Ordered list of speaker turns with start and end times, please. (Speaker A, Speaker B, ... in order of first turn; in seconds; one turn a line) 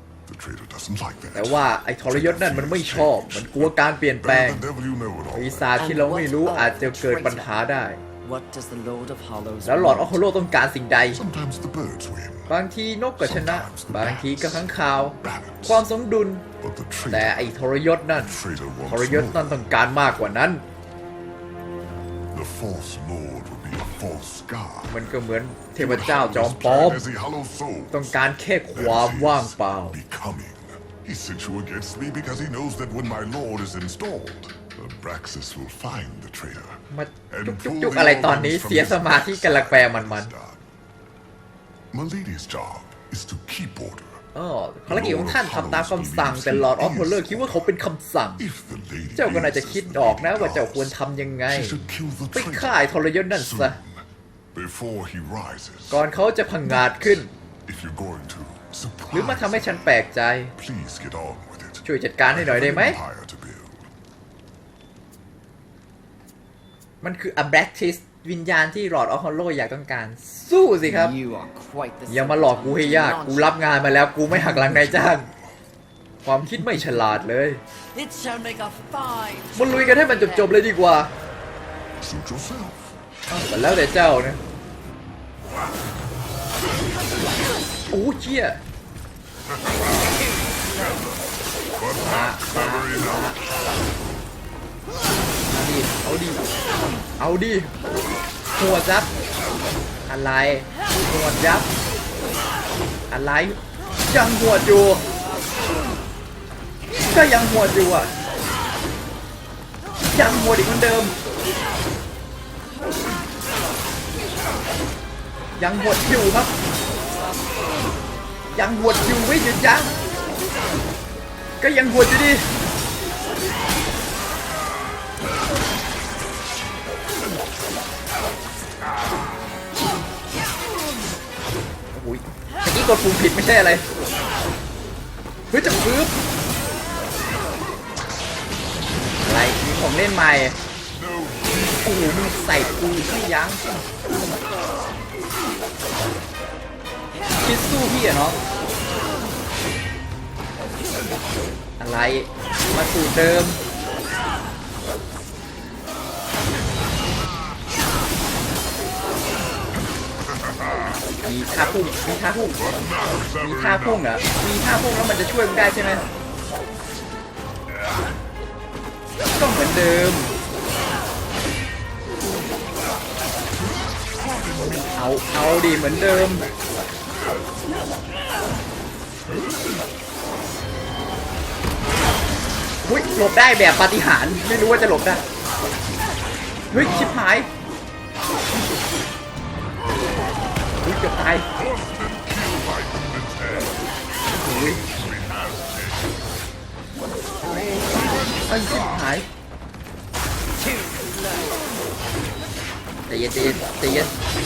Speaker A: 0.2-5.7
Speaker B: 1.3-4.7
Speaker B: 5.3-8.0
Speaker C: 5.8-7.6
Speaker C: 8.2-10.2
Speaker B: 9.6-11.2
Speaker A: 11.1-12.6
Speaker B: 12.5-16.5
Speaker A: 13.2-15.9
Speaker A: 16.6-17.5
Speaker B: 17.1-20.6
Speaker A: 18.1-19.7
Speaker A: 22.3-25.2
Speaker B: 24.9-27.0
Speaker A: 25.7-40.6
Speaker B: 27.9-30.0
Speaker B: 36.9-40.3
Speaker A: 41.9-44.2
Speaker B: 44.3-48.4
Speaker A: 44.9-47.7
Speaker A: 48.4-51.0
Speaker B: 49.1-51.8
Speaker A: 51.5-56.0
Speaker B: 52.3-53.8
Speaker B: 55.9-57.3
Speaker A: 56.6-59.9
Speaker B: 59.1-60.5
Speaker A: 60.5-63.9
Speaker B: 61.8-63.0
Speaker B: 67.0-71.2
Speaker C: 70.8-73.6
Speaker B: 72.1-75.3
Speaker A: 74.3-75.5
Speaker B: 76.2-77.6
Speaker C: 77.9-80.5
Speaker B: 79.5-81.1
Speaker A: 82.0-83.0
Speaker B: 83.3-84.4
Speaker B: 87.9-88.6
Speaker A: 89.6-90.2
Speaker A: 90.7-91.1
Speaker A: 91.6-93.4
Speaker B: 92.0-93.4
Speaker B: 95.5-96.5
Speaker B: 97.2-97.7
Speaker B: 98.5-99.1
Speaker B: 100.0-101.7
Speaker B: 103.1-105.0
Speaker B: 107.0-108.1
Speaker B: 110.1-111.2
Speaker B: 115.6-116.5
Speaker B: 118.5-120.0
Speaker B: 121.6-122.5
Speaker B: 131.9-133.9
Speaker B: 135.5-136.2
Speaker B: 139.2-140.6
Speaker A: 140.9-143.2
Speaker B: 141.8-143.9
Speaker B: 147.4-148.4
Speaker B: 151.8-153.6
Speaker A: 160.3-164.2
Speaker B: 161.2-162.6
Speaker B: 163.4-166.1
Speaker B: 169.3-170.3
Speaker A: 174.2-176.5
Speaker B: 174.8-176.5
Speaker B: 182.8-185.2
Speaker B: 186.7-187.5
Speaker B: 190.8-191.5
Speaker A: 191.6-196.2
Speaker B: 194.4-194.9
Speaker A: 197.4-199.1
Speaker B: 198.5-199.3
Speaker C: 200.6-201.7
Speaker B: 203.1-204.1